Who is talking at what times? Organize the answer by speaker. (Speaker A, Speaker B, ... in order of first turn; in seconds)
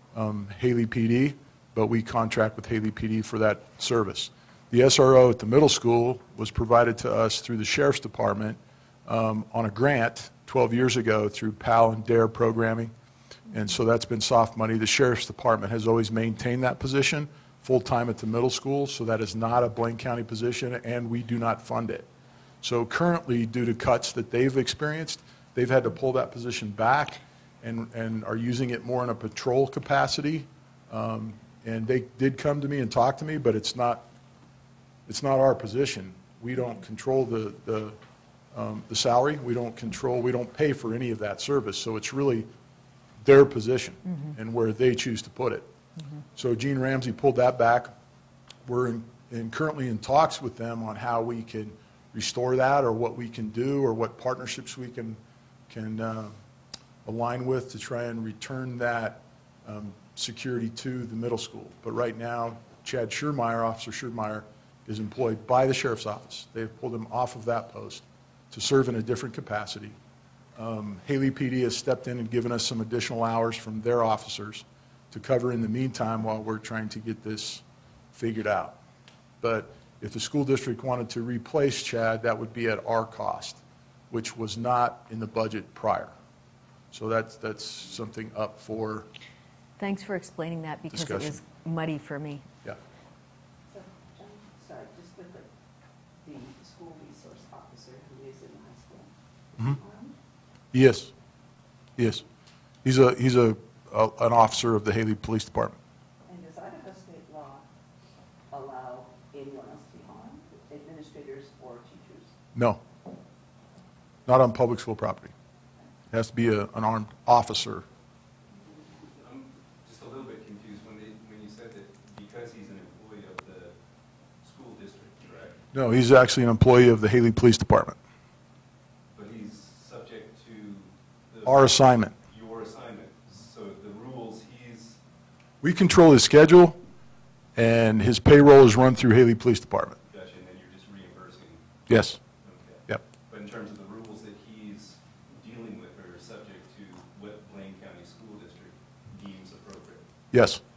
Speaker A: 0.1-12.9, 13.5-22.1, 22.6-34.0, 35.1-38.0, 38.5-42.5, 43.2-45.7, 46.4-47.9, 48.7-56.4, 57.0-70.0, 70.6-78.8, 79.4-86.1, 86.9-89.1, 90.9-91.4, 100.7-101.1, 102.0-102.2, 102.8-105.8, 112.5-112.8, 114.3-115.3, 116.1-117.8, 125.7-128.0, 131.4-132.2, 135.6-136.8, 137.6-140.0, 141.9-142.2, 150.3-150.6
Speaker B: 44.0-44.4, 89.8-92.5
Speaker C: 93.7-95.5, 96.2-100.2, 106.3-107.7, 108.5-112.3
Speaker D: 119.0-123.8, 124.4-125.6, 129.1-135.0, 140.1-141.6, 142.3-150.1